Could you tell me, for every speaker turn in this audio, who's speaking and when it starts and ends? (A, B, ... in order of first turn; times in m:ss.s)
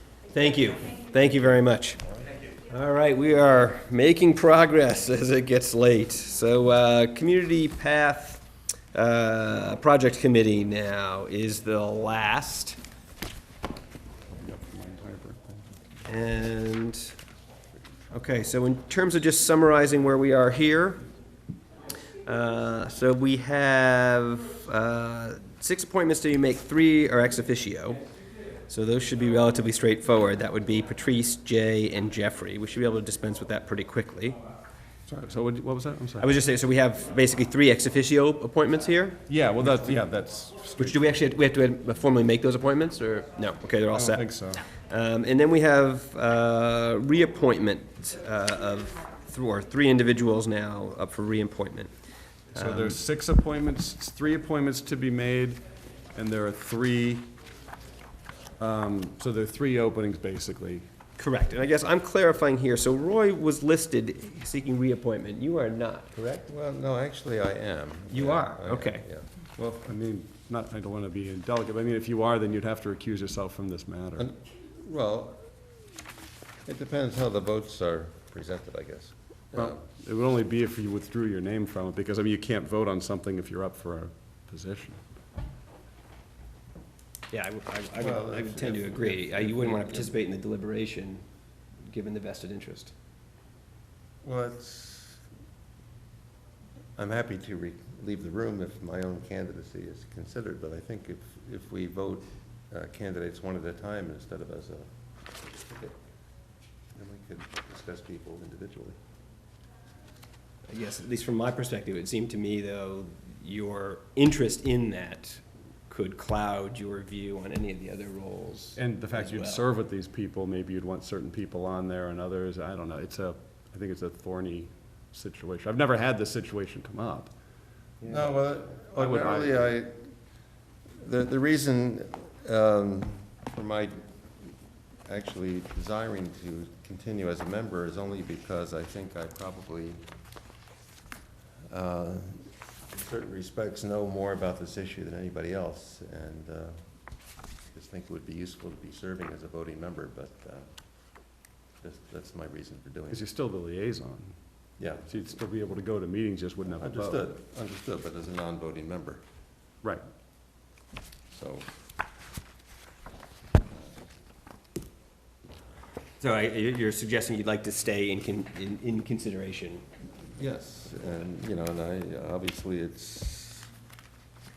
0:00.3-0:02.0 A
0:02.6-0:12.8 A
0:14.4-0:15.7 B
0:16.0-0:17.1 A
0:18.1-0:21.0 A
0:22.2-0:28.0 A
0:28.7-0:34.4 A
0:35.0-0:36.3 B
0:36.2-0:39.8 A
0:39.3-0:41.0 B
0:40.8-0:51.9 A
0:43.9-0:44.6 B
0:52.5-0:53.0 A
0:52.6-0:57.3 B
0:58.6-1:00.8 B
1:01.2-1:06.5 A
1:06.5-1:09.3 C
1:08.1-1:09.0 A
1:09.6-1:14.3 B
1:14.2-1:15.7 C
1:16.6-1:19.8 C
1:19.5-1:25.0 B
1:27.3-1:31.2 A
1:28.0-1:30.1 C
1:31.9-1:32.9 A
1:34.2-1:35.2 C
1:37.0-1:45.9 C
1:46.9-1:49.0 C
1:50.7-1:59.6 A
1:58.8-2:07.3 B
2:08.0-2:10.1 C
2:09.0-2:09.6 B
2:11.0-2:14.0 C
2:15.0-2:20.0 C
2:21.7-2:26.8 C
2:27.7-2:30.6 C
2:31.8-2:33.2 C
2:33.1-2:34.3 B
2:34.8-2:35.1 C
2:34.9-2:37.2 B
2:36.7-2:39.2 C
2:41.3-2:41.7 C
2:46.2-2:49.8 A
2:50.4-2:53.7 C